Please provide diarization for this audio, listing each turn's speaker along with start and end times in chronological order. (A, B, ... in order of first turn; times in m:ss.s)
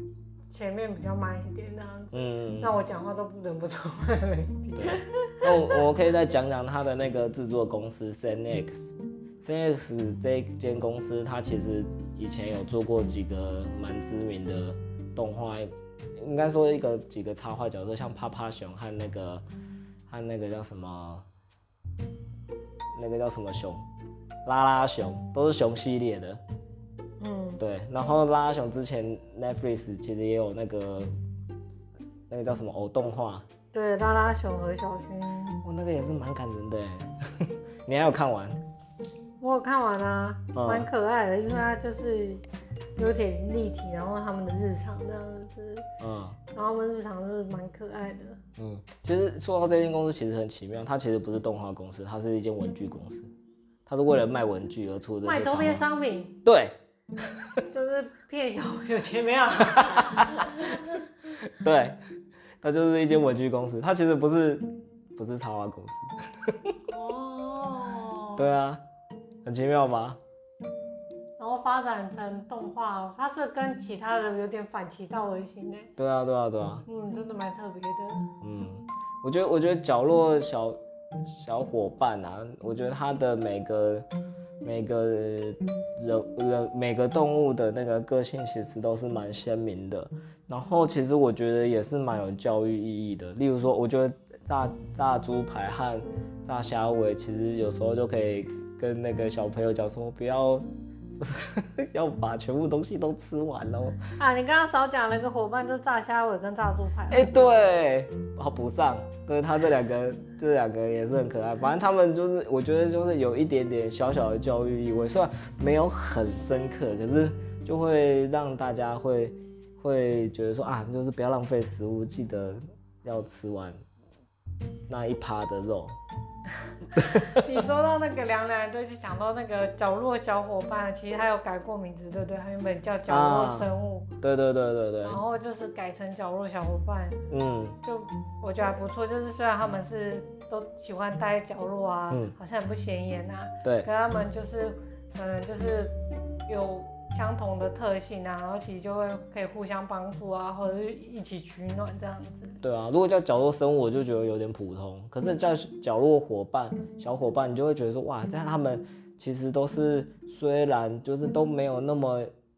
0:00.5-0:05.8 A
0:02.1-0:02.7 B
0:04.7-0:19.4 B
0:20.1-0:21.2 B
0:22.9-0:23.8 B
0:24.4-0:26.4 B
0:27.2-0:27.6 A
0:27.6-0:31.1 B
0:32.3-0:33.4 B
0:33.7-0:35.6 A
0:35.6-0:38.6 B
0:39.4-0:42.4 A
0:40.5-0:40.9 B
0:43.0-0:45.8 A
0:46.0-0:46.4 B
0:46.5-0:48.4 A
0:48.6-0:53.3 B
0:53.8-0:55.8 B
0:55.2-0:56.4 A
0:56.4-0:56.8 B
0:57.7-1:01.0 A
0:59.7-1:02.0 B
1:02.6-1:06.7 B
1:06.9-1:08.4 A
1:08.4-1:08.8 B
1:09.4-1:10.2 B
1:11.4-1:15.9 A
1:16.0-1:16.8 B
1:16.8-1:18.3 A
1:18.4-1:24.1 B
1:24.6-1:40.6 B
1:41.2-1:44.0 B
1:44.2-1:47.5 A
1:47.1-2:03.8 B
2:04.9-2:06.0 B
2:07.0-2:07.2 B
2:07.0-2:14.1 A
2:13.1-2:13.7 B
2:14.2-2:15.2 B
2:15.0-2:17.2 A
2:17.3-2:17.8 B
2:17.8-2:25.9 A
2:23.6-2:23.9 B
2:26.4-2:32.6 A
2:32.6-2:42.3 B